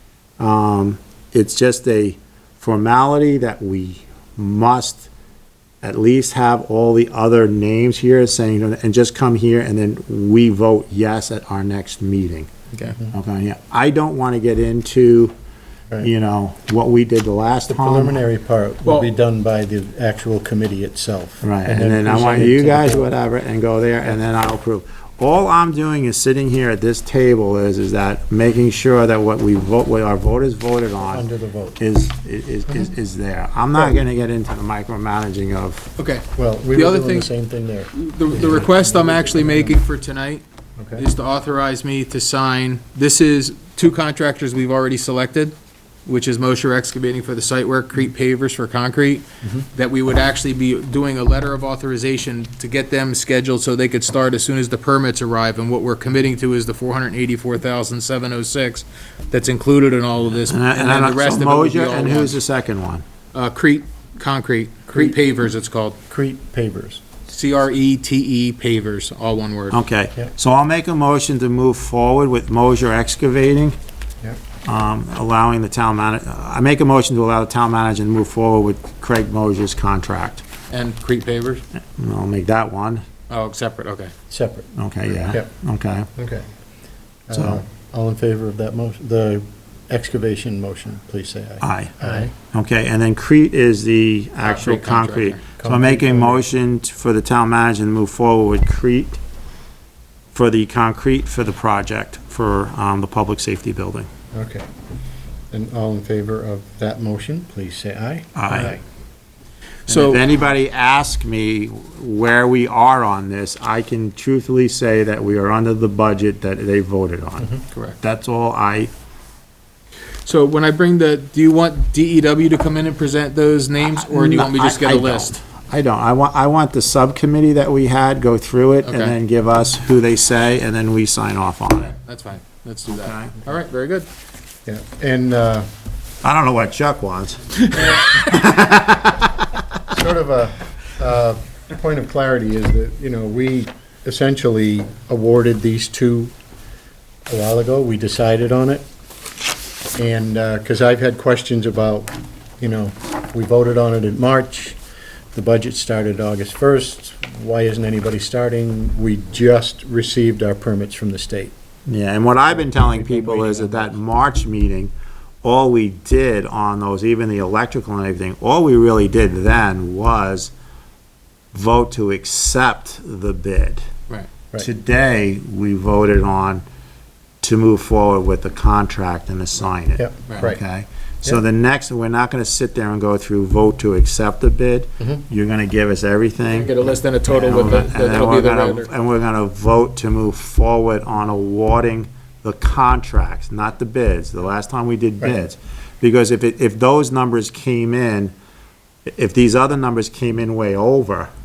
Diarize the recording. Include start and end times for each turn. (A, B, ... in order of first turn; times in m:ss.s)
0:00.4-0:05.1 A
0:05.8-0:12.5 A
0:13.1-0:15.3 A
0:16.0-0:18.2 A
0:17.7-0:23.1 B
0:18.8-0:19.1 C
0:21.4-0:31.3 A
0:31.0-0:31.8 B
0:31.8-0:35.9 A
0:36.0-0:37.3 C
0:36.4-0:39.8 B
0:37.9-0:40.4 C
0:40.8-0:41.0 B
0:41.0-0:45.6 C
0:46.0-1:02.4 C
0:49.4-0:49.7 B
1:00.4-1:03.0 A
1:03.3-1:06.0 C
1:04.9-1:05.2 B
1:06.1-1:07.0 B
1:07.3-1:09.8 C
1:09.7-1:13.8 A
1:14.6-1:20.4 A
1:20.7-1:21.6 C
1:21.9-1:23.0 A
1:23.3-1:24.1 C
1:24.3-1:24.7 B
1:24.7-1:26.1 A
1:26.2-1:26.4 B
1:27.3-1:32.3 B
1:27.3-1:27.6 A
1:31.6-1:39.2 A
1:34.4-1:35.4 C
1:35.6-1:36.4 B
1:40.3-1:44.1 A
1:44.3-1:44.6 B
1:45.5-1:48.8 B
1:48.3-1:48.8 A
1:49.9-1:50.2 C
1:49.9-1:58.9 A
1:57.7-1:58.0 C
2:00.2-2:05.4 C
2:03.8-2:11.9 A
2:08.8-2:09.1 C
2:11.8-2:14.1 C
2:12.9-2:13.4 A
2:14.7-2:15.7 B
2:16.2-2:19.4 A
2:17.8-2:18.2 C
2:19.9-2:26.3 B
2:27.3-2:28.8 B
2:29.9-2:34.8 B
2:35.3-2:41.5 B
2:41.9-2:44.9 A
2:42.5-2:43.9 B
2:45.4-2:50.5 A
2:51.5-2:53.8 A
2:54.6-2:56.6 A
2:57.4-3:18.3 A
3:00.0-3:00.6 B
3:06.5-3:08.9 C
3:19.1-3:21.3 A